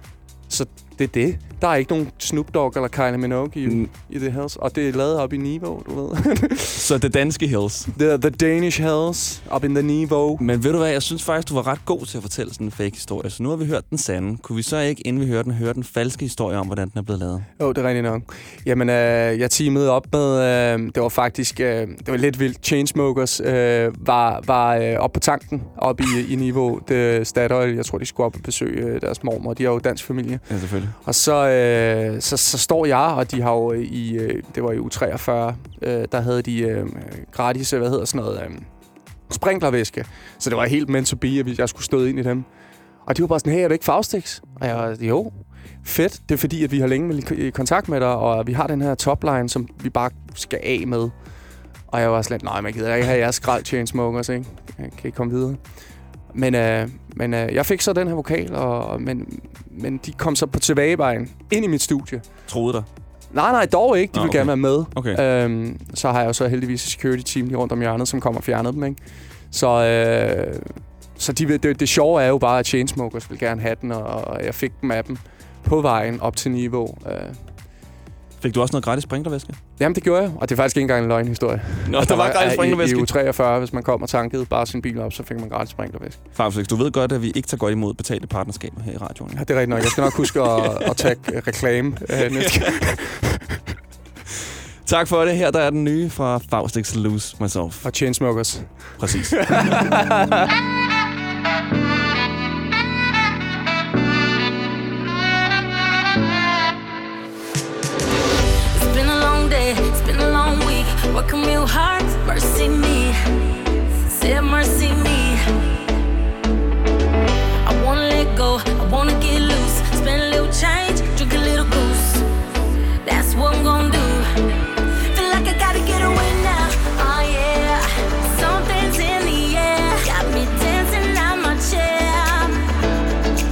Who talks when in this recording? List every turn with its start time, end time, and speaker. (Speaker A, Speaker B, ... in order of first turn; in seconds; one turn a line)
Speaker A: 0.5-6.9
Speaker B: 3.6-3.9
Speaker B: 6.8-7.9
Speaker A: 7.9-10.4
Speaker B: 10.4-17.5
Speaker A: 17.6-30.5
Speaker B: 30.5-31.0
Speaker A: 31.0-38.7
Speaker A: 39.3-42.5
Speaker A: 43.1-51.1
Speaker A: 51.9-55.6
Speaker A: 56.3-62.3
Speaker B: 62.5-62.9
Speaker A: 63.3-69.0
Speaker B: 64.1-65.2
Speaker A: 69.5-77.5
Speaker B: 78.4-79.6
Speaker A: 79.8-86.2
Speaker B: 81.8-83.1
Speaker B: 86.3-91.1
Speaker A: 89.3-93.4
Speaker B: 92.2-92.7
Speaker B: 94.8-97.9
Speaker A: 97.8-100.5
Speaker B: 99.0-99.4
Speaker C: 108.7-113.2
Speaker C: 114.0-115.4
Speaker C: 117.6-122.3
Speaker C: 123.0-124.3
Speaker C: 125.1-132.7